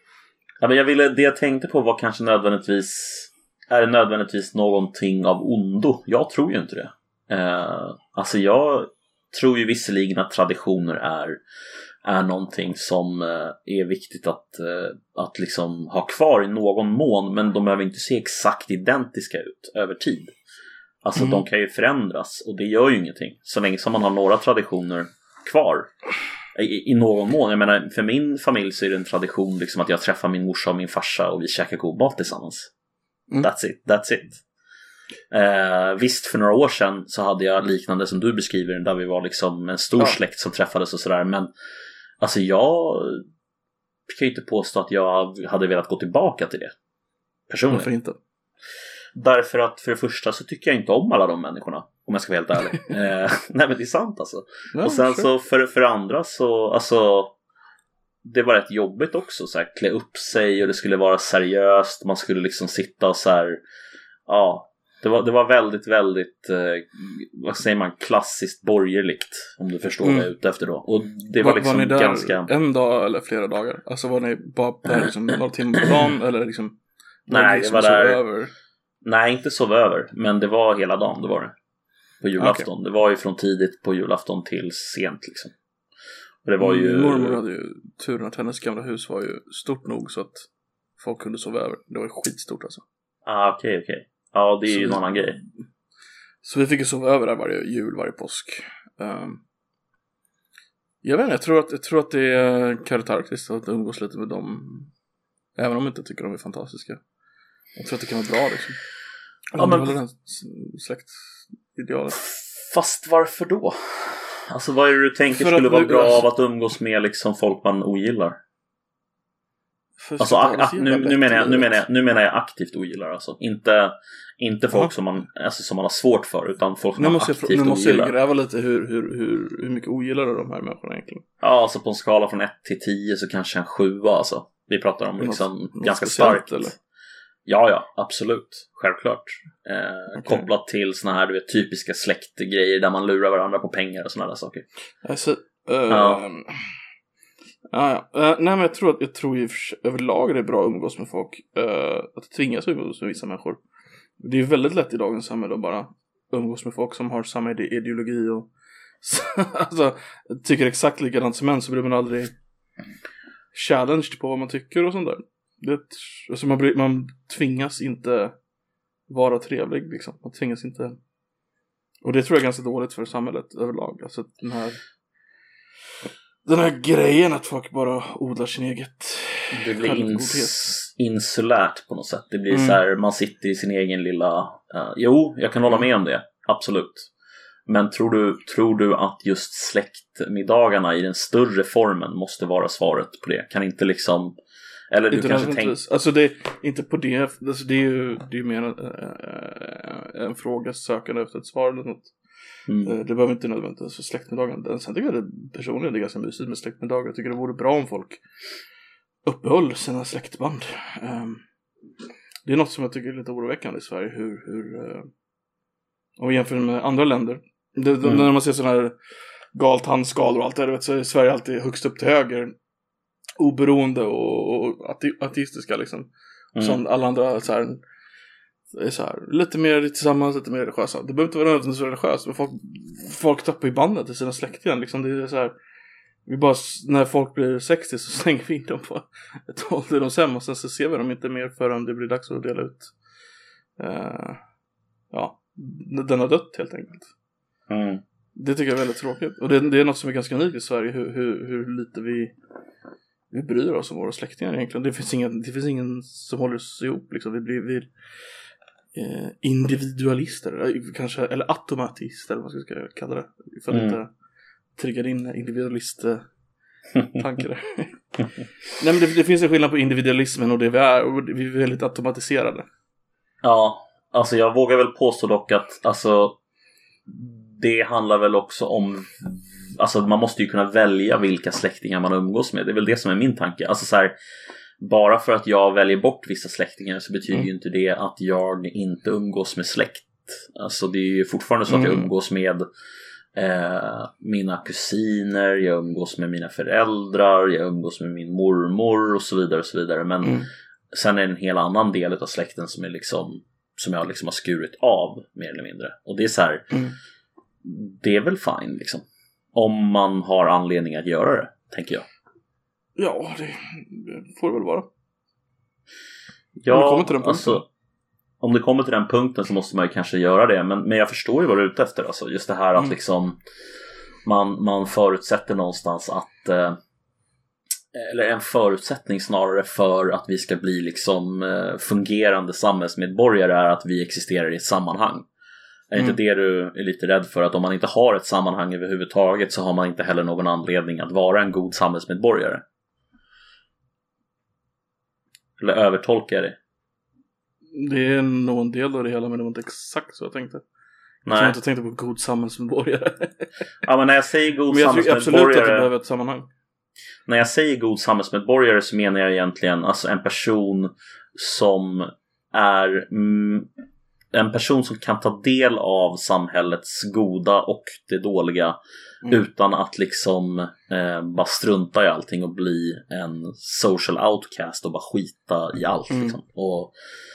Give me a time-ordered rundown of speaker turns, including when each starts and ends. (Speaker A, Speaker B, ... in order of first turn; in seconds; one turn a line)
Speaker A: 0.6-11.4
Speaker A: 12.0-20.3
Speaker A: 21.0-25.9
Speaker B: 21.2-21.4
Speaker A: 26.6-32.7
Speaker A: 33.4-34.4
Speaker A: 35.3-41.5
Speaker A: 42.2-43.2
Speaker A: 44.1-46.7
Speaker A: 47.5-47.9
Speaker B: 47.7-48.1
Speaker A: 49.1-57.3
Speaker B: 54.7-55.3
Speaker A: 58.2-63.6
Speaker A: 64.3-72.5
Speaker B: 70.0-70.3
Speaker B: 71.4-78.5
Speaker A: 77.3-78.2
Speaker A: 79.0-81.5
Speaker A: 82.2-85.5
Speaker B: 82.4-82.7
Speaker A: 86.4-87.4
Speaker B: 86.6-90.5
Speaker B: 91.0-92.8
Speaker A: 93.2-95.4
Speaker B: 94.7-95.2
Speaker B: 96.4-99.4
Speaker B: 101.0-104.9
Speaker B: 105.6-107.0
Speaker B: 107.8-108.8
Speaker B: 109.5-112.2
Speaker A: 109.5-109.9
Speaker A: 112.1-118.4
Speaker B: 115.3-116.2
Speaker B: 120.0-121.8
Speaker A: 120.2-128.1
Speaker B: 127.0-131.2
Speaker A: 131.4-136.8
Speaker B: 135.2-136.8
Speaker A: 137.4-144.6
Speaker B: 140.1-140.4
Speaker B: 145.0-146.6
Speaker A: 145.9-146.2
Speaker B: 147.7-153.6
Speaker B: 154.2-158.5
Speaker B: 159.0-162.3
Speaker B: 163.5-168.4
Speaker B: 169.1-171.0
Speaker B: 172.0-174.8
Speaker B: 176.4-180.7
Speaker A: 179.5-187.1
Speaker B: 182.5-182.8
Speaker A: 187.7-194.3
Speaker A: 194.9-195.8
Speaker B: 195.1-202.1
Speaker A: 202.7-202.9
Speaker B: 202.8-208.2
Speaker B: 209.2-211.4
Speaker B: 212.4-215.1
Speaker B: 216.2-218.9
Speaker A: 218.0-218.3
Speaker B: 219.5-222.5
Speaker B: 223.4-227.8
Speaker A: 226.6-226.8
Speaker B: 228.7-235.5
Speaker B: 236.3-242.9
Speaker B: 243.8-244.4
Speaker B: 245.1-247.1
Speaker A: 247.7-248.0
Speaker B: 248.3-252.3
Speaker B: 253.3-257.9
Speaker B: 258.9-264.1
Speaker A: 263.7-264.0
Speaker B: 264.8-266.3
Speaker B: 267.1-268.0
Speaker B: 268.8-272.6
Speaker A: 273.4-276.4
Speaker A: 277.1-284.1
Speaker A: 284.8-292.6
Speaker B: 291.7-292.1
Speaker A: 293.4-306.7
Speaker B: 300.2-300.5
Speaker B: 306.7-307.0
Speaker A: 307.6-312.1
Speaker B: 313.0-314.9
Speaker A: 316.6-317.6
Speaker B: 316.7-317.6
Speaker A: 318.4-323.4
Speaker A: 324.2-326.8
Speaker A: 327.9-335.3
Speaker A: 335.9-342.6
Speaker A: 345.6-346.6
Speaker B: 347.7-350.6
Speaker A: 351.3-351.6
Speaker B: 351.3-353.5
Speaker A: 353.8-355.9
Speaker B: 354.7-356.5
Speaker A: 357.3-363.7
Speaker A: 364.3-376.9
Speaker B: 376.1-376.4